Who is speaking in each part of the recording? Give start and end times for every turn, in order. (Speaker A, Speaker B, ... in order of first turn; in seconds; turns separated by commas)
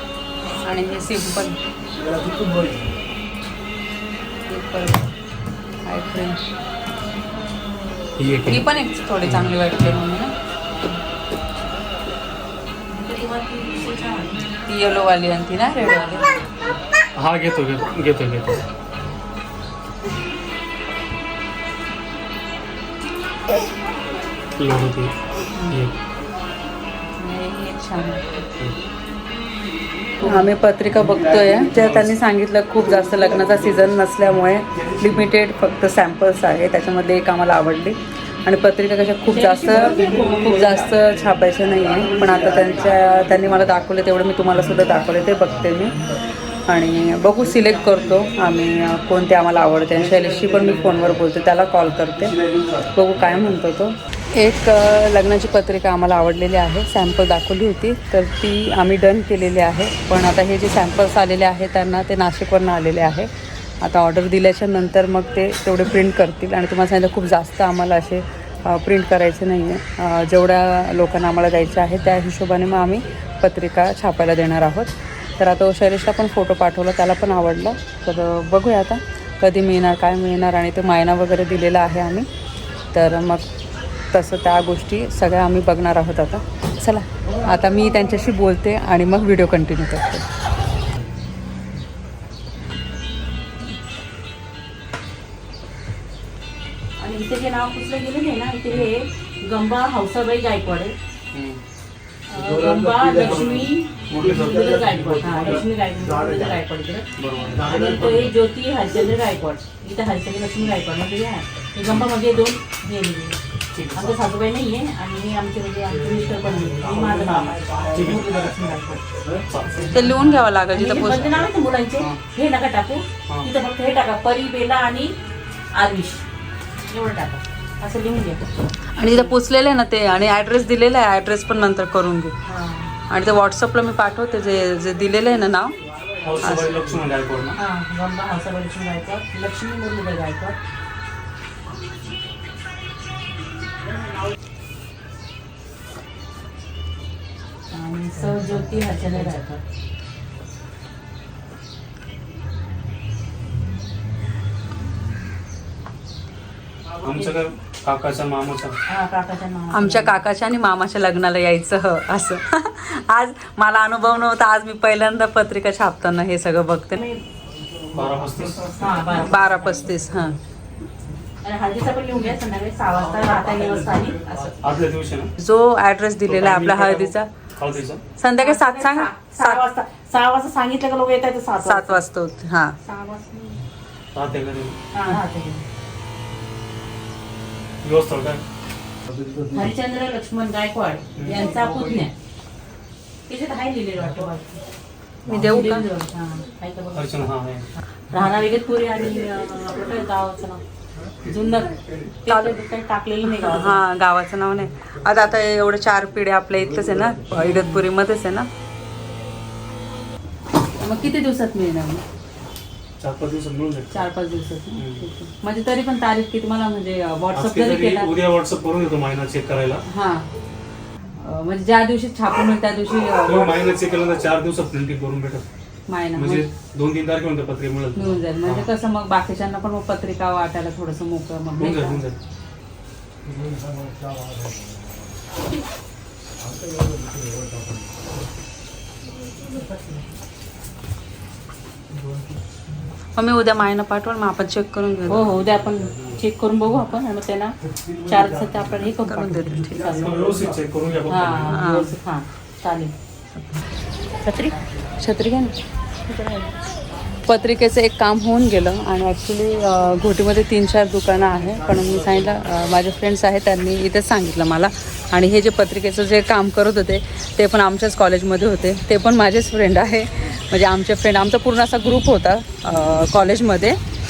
Speaker A: 0.6-1.6, Speaker A: 4.5-5.1, Speaker A: 5.8-6.4, Speaker B: 8.2-8.7, Speaker A: 8.5-10.3, Speaker B: 9.2-9.9, Speaker C: 12.9-14.5, Speaker A: 14.7-16.3, Speaker B: 17.2-18.6, Speaker B: 24.6-25.1, Speaker A: 27.2-28.4, Speaker C: 30.2-30.5, Speaker A: 30.2-46.0, Speaker C: 39.3-40.8, Speaker A: 46.7-52.4, Speaker A: 52.9-63.3, Speaker A: 63.8-82.3, Speaker A: 82.9-83.5, Speaker A: 84.1-90.2, Speaker C: 97.0-101.0, Speaker B: 101.3-101.6, Speaker C: 102.3-107.1, Speaker B: 103.1-105.7, Speaker B: 107.2-108.3, Speaker C: 107.6-113.4, Speaker B: 113.7-114.2, Speaker C: 113.9-119.2, Speaker B: 117.9-118.5, Speaker B: 119.2-119.9, Speaker C: 119.8-125.1, Speaker A: 119.9-121.5, Speaker C: 125.7-126.2, Speaker C: 126.9-128.5, Speaker A: 129.0-132.3, Speaker C: 129.0-129.3, Speaker C: 132.5-132.9, Speaker A: 133.1-135.8, Speaker B: 136.2-137.6, Speaker A: 136.4-136.9, Speaker C: 137.6-140.6, Speaker C: 147.7-149.6, Speaker B: 157.0-158.8, Speaker C: 158.9-160.2, Speaker A: 159.7-167.0, Speaker B: 167.9-169.0, Speaker C: 168.6-169.9, Speaker A: 169.2-170.4, Speaker C: 171.4-174.6, Speaker B: 173.2-175.3, Speaker A: 175.4-177.3, Speaker B: 176.3-178.0, Speaker A: 178.2-179.6, Speaker C: 178.4-182.0, Speaker A: 181.6-182.8, Speaker C: 182.8-183.6, Speaker B: 184.1-184.8, Speaker C: 184.9-185.6, Speaker B: 187.8-188.4, Speaker C: 189.5-192.1, Speaker B: 191.2-191.5, Speaker C: 193.3-194.6, Speaker A: 195.3-195.8, Speaker C: 195.4-197.3, Speaker B: 196.9-197.7, Speaker C: 198.1-200.6, Speaker C: 201.2-203.8, Speaker A: 202.3-202.6, Speaker A: 203.3-208.5, Speaker C: 207.5-207.8, Speaker A: 210.8-212.0, Speaker B: 213.0-213.9, Speaker A: 213.9-218.1, Speaker B: 214.8-215.1, Speaker B: 217.3-219.8, Speaker A: 219.9-220.3, Speaker A: 221.2-223.6, Speaker B: 223.2-225.5, Speaker A: 225.9-226.5, Speaker B: 226.2-228.7, Speaker A: 228.0-232.0, Speaker B: 231.6-232.2, Speaker C: 239.5-240.0, Speaker A: 243.2-245.3, Speaker C: 245.1-250.3, Speaker A: 249.1-249.9, Speaker B: 249.9-251.7, Speaker C: 251.1-252.9, Speaker A: 251.5-251.9, Speaker C: 254.2-254.6, Speaker A: 255.0-255.6, Speaker C: 256.1-256.5, Speaker A: 257.3-273.8